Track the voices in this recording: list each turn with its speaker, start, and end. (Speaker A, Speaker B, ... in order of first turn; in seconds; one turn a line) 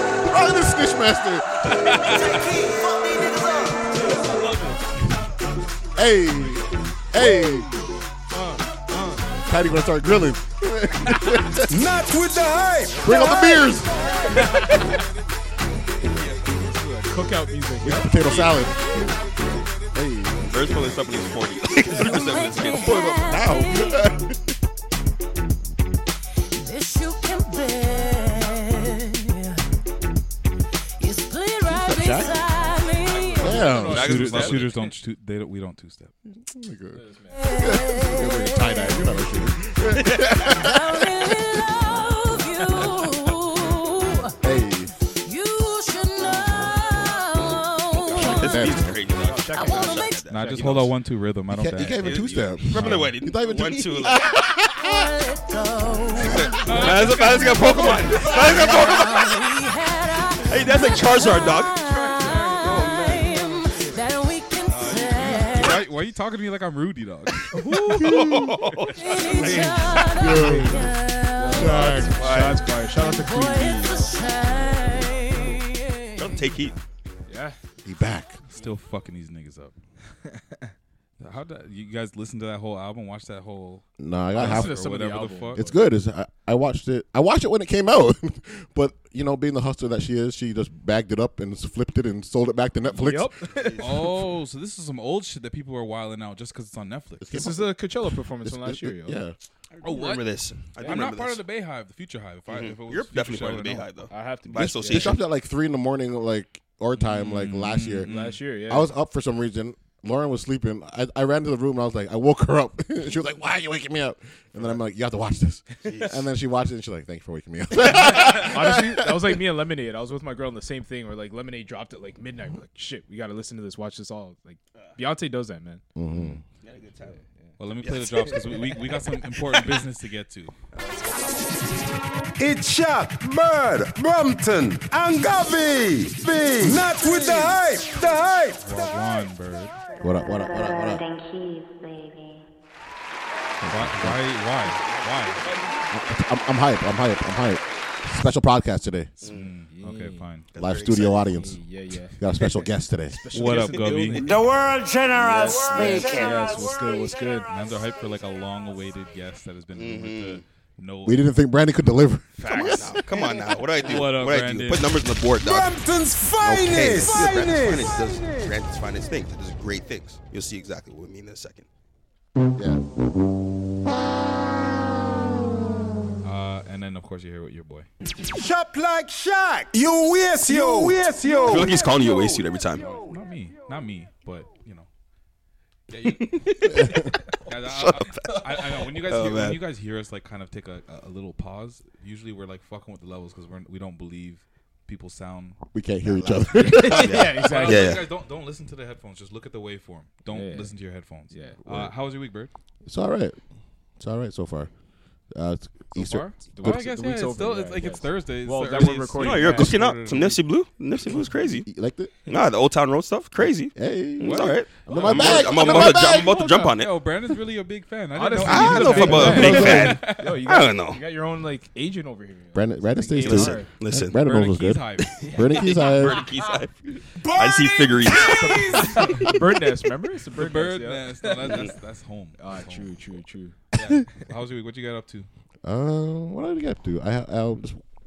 Speaker A: 0.2-1.8
Speaker B: 1.6-2.4
Speaker C: 2.0-4.0
Speaker D: 4.0-4.8
Speaker A: 5.9-7.7
Speaker D: 8.3-9.2
Speaker A: 9.4-11.9
Speaker C: 11.7-13.5
Speaker A: 13.0-14.7
Speaker D: 13.1-13.6
Speaker D: 14.2-15.0
Speaker B: 16.2-17.4
Speaker D: 17.1-18.3
Speaker A: 17.8-19.3
Speaker E: 18.2-18.7
Speaker A: 19.9-20.9
Speaker E: 20.4-23.2
Speaker F: 21.8-24.2
Speaker A: 22.1-24.4
Speaker F: 26.5-29.6
Speaker F: 31.0-33.7
Speaker A: 31.7-32.5
Speaker D: 33.1-34.7
Speaker A: 33.4-34.2
Speaker E: 33.6-34.8
Speaker B: 33.6-36.1
Speaker A: 36.2-41.3
Speaker D: 36.9-37.6
Speaker F: 37.3-39.2
Speaker E: 39.9-40.5
Speaker F: 40.1-44.4
Speaker A: 44.4-44.9
Speaker F: 45.0-48.7
Speaker D: 46.2-46.7
Speaker E: 48.0-50.6
Speaker A: 48.1-49.0
Speaker D: 49.1-50.9
Speaker F: 49.5-50.2
Speaker B: 50.3-52.1
Speaker A: 51.5-55.0
Speaker E: 52.0-54.3
Speaker B: 52.7-53.1
Speaker F: 54.7-65.8
Speaker E: 56.2-59.5
Speaker A: 56.3-56.6
Speaker B: 56.6-58.4
Speaker E: 60.5-61.8
Speaker B: 61.8-63.3
Speaker E: 62.6-63.3
Speaker B: 64.7-68.0
Speaker E: 65.4-65.8
Speaker D: 67.5-68.5
Speaker E: 68.0-69.7
Speaker F: 68.9-72.2
Speaker D: 69.3-70.8
Speaker A: 70.1-70.9
Speaker D: 71.4-74.1
Speaker A: 71.5-72.3
Speaker E: 72.2-72.7
Speaker F: 72.8-76.7
Speaker E: 76.2-76.8
Speaker D: 77.3-77.6
Speaker A: 77.8-78.4
Speaker B: 78.5-79.8
Speaker B: 81.2-85.7
Speaker A: 84.0-84.8
Speaker D: 84.4-85.8
Speaker A: 85.5-93.7
Speaker D: 92.9-94.0
Speaker B: 93.8-97.3
Speaker A: 97.2-99.4
Speaker D: 97.3-99.2
Speaker E: 99.7-101.4
Speaker B: 99.8-103.9
Speaker D: 100.8-101.1
Speaker E: 102.5-105.2
Speaker D: 104.1-105.2
Speaker A: 104.8-108.1
Speaker B: 106.9-108.4
Speaker D: 108.0-108.9
Speaker A: 108.7-119.4
Speaker E: 115.8-116.2
Speaker D: 117.8-125.8
Speaker A: 126.0-126.4
Speaker B: 126.1-126.4
Speaker E: 126.6-127.2
Speaker B: 127.6-130.5
Speaker E: 127.8-129.7
Speaker E: 130.7-131.6
Speaker C: 132.4-138.6
Speaker B: 138.6-139.7
Speaker G: 140.0-142.4
Speaker A: 140.0-141.0
Speaker A: 143.6-144.2
Speaker B: 143.6-145.5
Speaker A: 145.9-149.1
Speaker E: 149.2-149.5
Speaker B: 149.2-150.4
Speaker D: 149.7-150.2
Speaker E: 150.5-151.3
Speaker A: 150.6-151.6
Speaker D: 151.3-154.4
Speaker A: 152.2-153.2
Speaker B: 153.3-154.3
Speaker H: 153.9-157.2
Speaker D: 155.3-157.5
Speaker B: 157.4-161.3
Speaker E: 159.7-160.4
Speaker A: 161.0-163.4
Speaker B: 162.4-163.0
Speaker E: 162.5-165.7
Speaker B: 163.8-164.9
Speaker C: 165.3-168.6
Speaker E: 166.4-171.7
Speaker A: 172.6-172.8
Speaker B: 176.2-177.9
Speaker C: 178.3-182.3
Speaker E: 181.2-182.9
Speaker B: 183.0-184.9
Speaker B: 185.9-195.6
Speaker E: 186.0-189.6
Speaker A: 186.7-187.1
Speaker A: 195.7-197.3
Speaker D: 196.1-198.0
Speaker B: 196.6-202.5
Speaker E: 196.9-198.1
Speaker D: 200.3-200.8
Speaker D: 201.3-201.6
Speaker A: 202.8-203.4
Speaker A: 204.0-204.7
Speaker A: 205.3-206.4
Speaker B: 206.0-210.4
Speaker D: 206.0-209.8
Speaker E: 209.2-211.7
Speaker A: 211.6-212.1
Speaker E: 212.3-217.0
Speaker A: 213.7-216.3
Speaker B: 214.2-220.4
Speaker D: 214.9-216.1
Speaker D: 218.1-223.7
Speaker E: 218.4-221.0
Speaker A: 219.1-220.0
Speaker A: 222.5-226.3
Speaker E: 223.2-224.2
Speaker B: 224.1-225.2
Speaker E: 225.0-229.3
Speaker D: 225.2-226.0
Speaker C: 227.2-229.1
Speaker B: 228.2-229.3
Speaker D: 228.5-231.7
Speaker B: 230.3-232.9
Speaker E: 231.4-231.7
Speaker D: 232.4-233.6
Speaker B: 233.7-235.3
Speaker A: 235.6-237.8